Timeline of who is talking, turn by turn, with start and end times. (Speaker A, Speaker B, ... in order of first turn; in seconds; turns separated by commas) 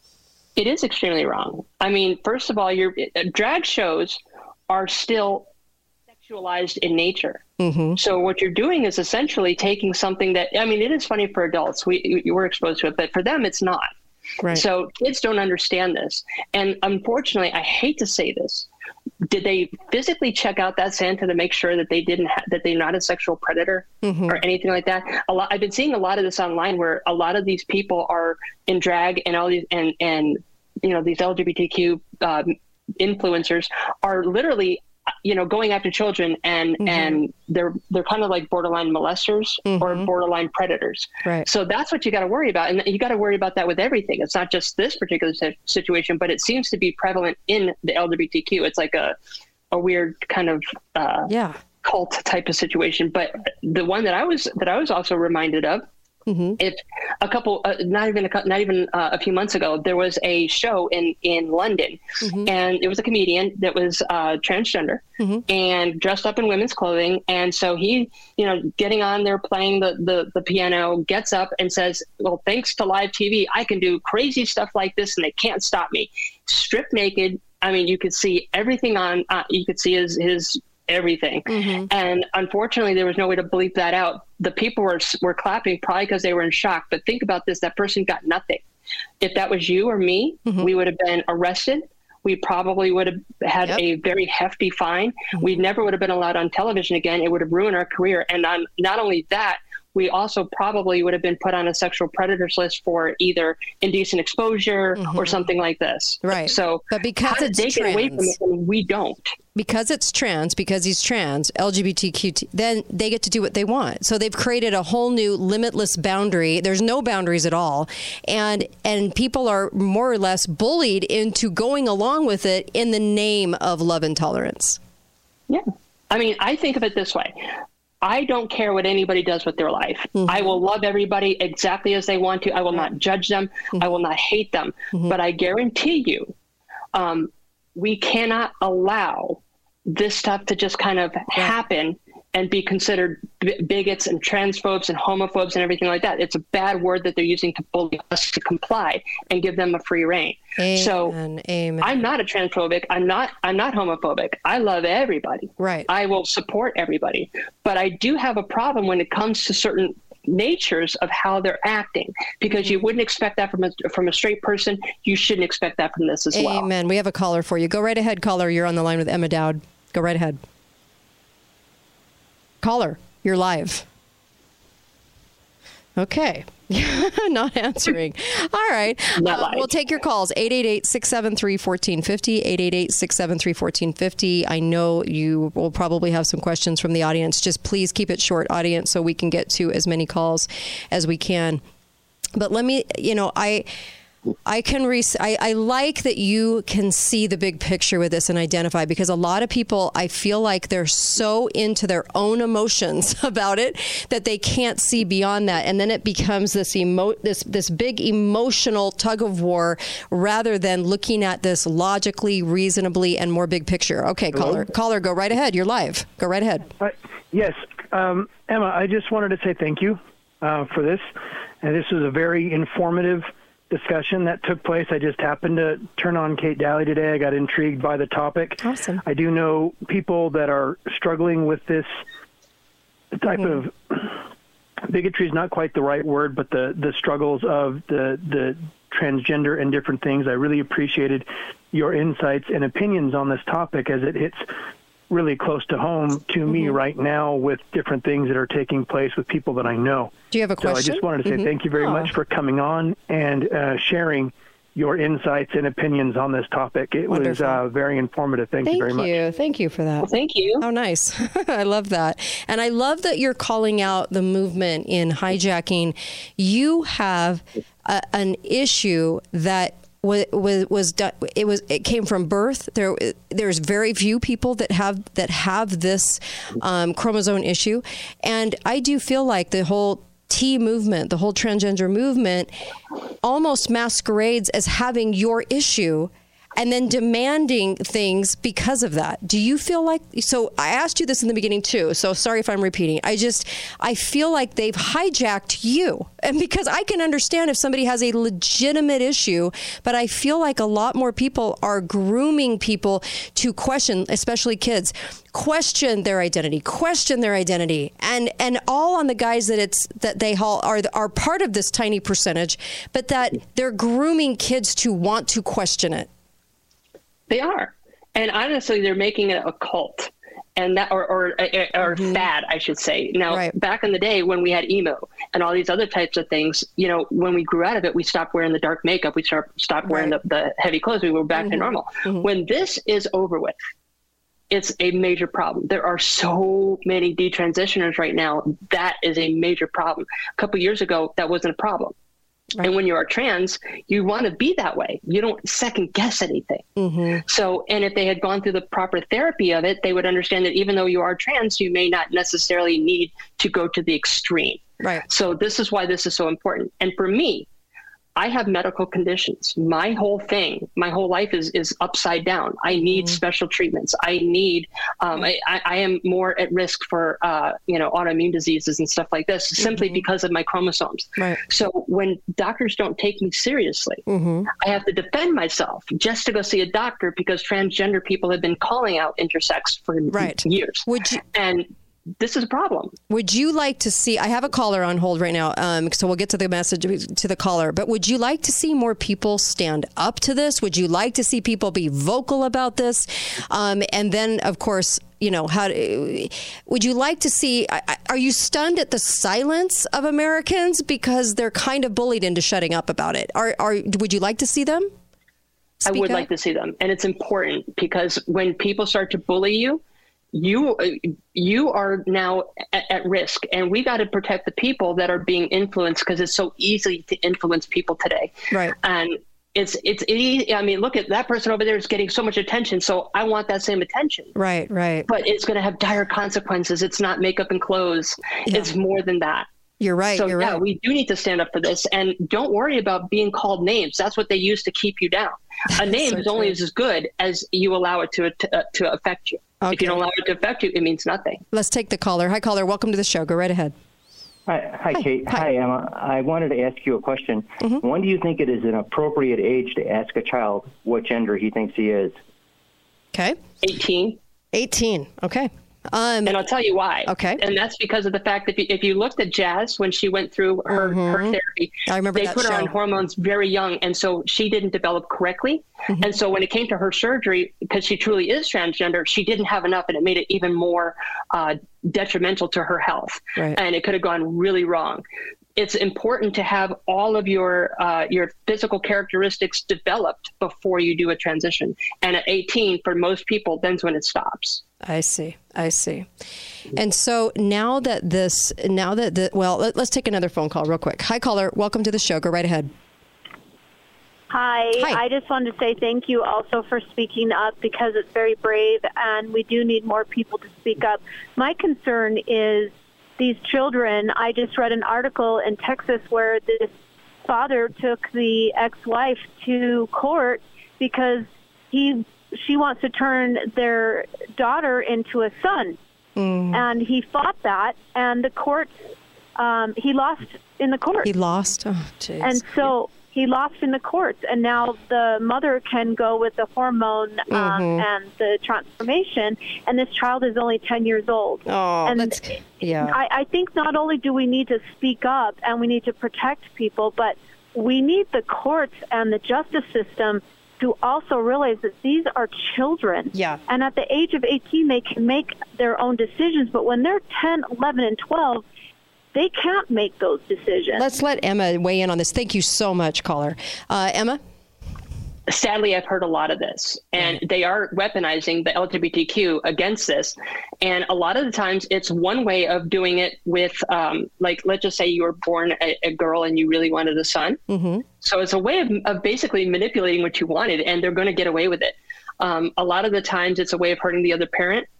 Speaker A: 0.6-5.5, Speaker A: 6.2-7.4, Speaker B: 7.6-8.0, Speaker A: 8.0-13.9, Speaker A: 14.5-18.7, Speaker A: 19.2-49.1, Speaker B: 24.0-24.4, Speaker B: 36.8-37.2, Speaker B: 39.6-40.1, Speaker A: 49.7-51.3, Speaker B: 51.3-51.6, Speaker A: 51.8-55.9, Speaker B: 56.3-56.6, Speaker A: 56.6-88.6, Speaker B: 62.2-62.5, Speaker B: 65.2-65.4, Speaker B: 81.5-81.9, Speaker A: 89.2-109.3, Speaker B: 105.0-105.4, Speaker B: 106.2-108.3, Speaker B: 109.5-124.8, Speaker A: 125.5-136.3, Speaker B: 130.2-130.5, Speaker A: 136.9-151.1, Speaker B: 150.6-151.9, Speaker A: 151.8-166.7, Speaker B: 155.6-155.9, Speaker B: 166.3-170.4, Speaker B: 172.6-173.8, Speaker B: 175.9-191.6, Speaker A: 179.2-179.7, Speaker B: 192.3-193.7, Speaker B: 194.4-216.7, Speaker C: 214.3-214.6, Speaker C: 216.8-221.1, Speaker C: 221.6-232.0, Speaker B: 228.6-229.0, Speaker C: 233.1-234.2, Speaker C: 234.9-244.5, Speaker C: 245.1-259.1, Speaker B: 250.3-252.1, Speaker B: 257.1-257.6, Speaker B: 258.6-282.5, Speaker A: 260.0-260.6, Speaker B: 283.2-316.1, Speaker A: 317.3-333.6, Speaker B: 321.9-322.2, Speaker B: 323.3-323.5, Speaker B: 329.9-330.1, Speaker B: 331.4-332.3, Speaker A: 334.5-341.9, Speaker A: 342.6-346.6, Speaker B: 346.8-347.2, Speaker A: 347.2-357.5, Speaker A: 358.1-374.0, Speaker B: 362.7-363.2, Speaker B: 369.6-370.0, Speaker B: 374.1-374.5, Speaker A: 374.6-381.7, Speaker B: 380.1-381.2, Speaker A: 382.2-382.9, Speaker B: 383.1-404.9, Speaker B: 405.8-406.3, Speaker A: 405.9-409.8, Speaker A: 410.3-424.3, Speaker B: 424.3-425.1, Speaker A: 425.1-429.4, Speaker B: 428.5-428.7, Speaker B: 429.8-430.6, Speaker A: 430.1-441.4, Speaker B: 435.9-436.5, Speaker B: 439.6-440.0, Speaker B: 441.5-443.7, Speaker D: 444.5-452.1, Speaker B: 444.9-445.4, Speaker B: 453.1-453.4, Speaker A: 453.6-454.2, Speaker B: 454.5-456.4, Speaker A: 456.2-475.0, Speaker B: 457.1-457.4, Speaker B: 460.7-462.7, Speaker A: 475.6-484.6, Speaker B: 484.8-486.1, Speaker B: 486.7-492.7, Speaker E: 494.3-506.7, Speaker E: 507.2-515.8, Speaker B: 516.1-516.6, Speaker E: 516.5-518.7, Speaker E: 519.4-521.1, Speaker B: 521.0-522.6, Speaker E: 522.2-532.2, Speaker B: 527.3-527.9, Speaker B: 531.5-533.0, Speaker E: 532.8-548.4, Speaker B: 543.1-543.4, Speaker E: 549.1-550.9, Speaker B: 550.8-554.2, Speaker A: 555.3-567.4, Speaker B: 567.5-567.8, Speaker A: 568.0-574.7